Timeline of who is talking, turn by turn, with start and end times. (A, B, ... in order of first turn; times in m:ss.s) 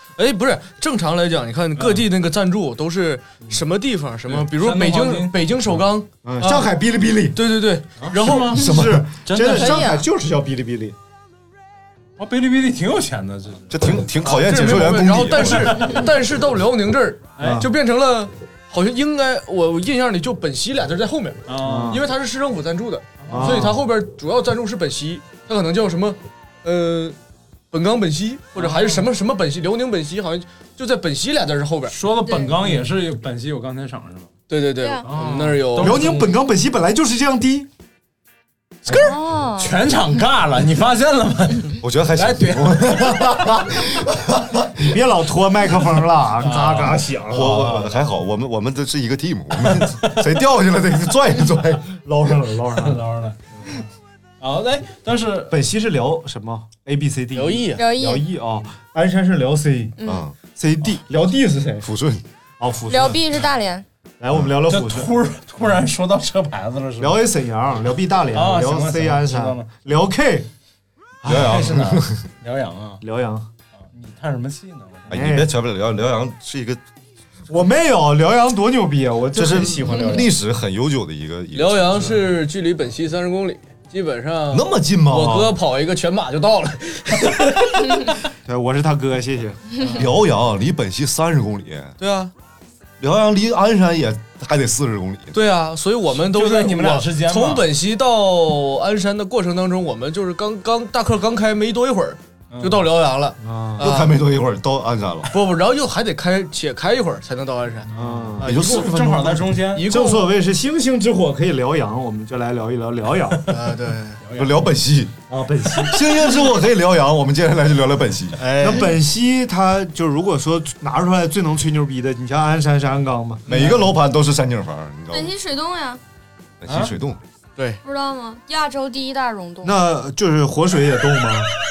0:00.2-0:06.6 A
0:01.8-0:02.0 B
0:04.3-0:05.4 B
0:06.2-0:07.4 C
0:07.3-0:08.5 A
0:08.0-0:09.9 B
0:08.5-0:11.0 C
0:08.5-0:09.0 D
0:09.5-0:10.1 E
0:12.2-0:13.9 B
0:13.7-0:15.9 D
0:14.2-0:27.2 A
0:15.3-0:16.1 B
0:17.4-0:17.7 B
0:17.4-0:17.7 C
0:21.5-0:22.0 B
0:21.6-0:22.0 C
0:23.2-0:23.8 B
0:23.3-0:23.8 C
0:27.7-0:32.0 A
0:28.6-0:29.1 B
0:31.9-0:34.3 B
0:32.2-0:32.6 E
0:34.5-0:36.0 A
0:34.8-0:35.1 E
0:35.0-0:36.4 B
0:35.8-0:37.7 C
0:38.9-0:39.1 A
0:38.9-0:39.8 E
0:39.6-0:43.3 B
0:41.8-0:44.7 D
0:44.8-0:47.9 C
0:46.4-0:47.9 B
0:47.3-0:51.9 D
0:51.9-0:53.0 C
0:52.8-0:53.8 B
0:54.4-0:55.6 B
0:55.5-1:01.9 C
0:57.4-0:57.8 A
0:57.8-0:58.2 E
1:00.0-1:00.2 E
1:00.0-1:00.4 D
1:01.8-1:02.2 D
1:02.6-1:03.2 C
1:02.9-1:03.9 E
1:04.2-1:05.1 C
1:04.7-1:07.2 B
1:07.0-1:10.5 C
1:08.3-1:09.7 B
1:11.2-1:11.8 C
1:11.2-1:12.2 D
1:11.3-1:13.0 B
1:13.0-1:13.5 C
1:13.9-1:15.2 B
1:15.1-1:16.8 D
1:15.1-1:15.5 C
1:17.5-1:20.3 C
1:19.3-1:22.2 D
1:21.5-1:27.7 A
1:24.5-1:25.6 D
1:28.4-1:29.6 C
1:29.9-1:31.9 D
1:32.0-1:32.3 A
1:33.0-1:35.4 D
1:35.3-1:44.2 A
1:36.2-1:37.7 B
1:42.5-1:42.8 B
1:43.4-1:43.8 C
1:43.8-1:45.3 D
1:45.3-1:48.9 A
1:47.9-1:48.5 C
1:48.0-1:49.9 B
1:48.4-1:49.5 D
1:49.7-1:50.3 A
1:49.8-1:53.6 C
1:53.5-1:54.2 A
1:54.2-1:54.7 B
1:54.4-1:55.2 D
1:55.3-1:56.0 C
1:55.8-1:58.4 D
1:58.5-1:58.8 A
1:58.6-2:03.9 C
2:03.5-2:05.3 D
2:05.1-2:06.0 E
2:06.6-2:07.2 D
2:06.7-2:06.9 B
2:07.8-2:09.8 E
2:09.6-2:11.5 C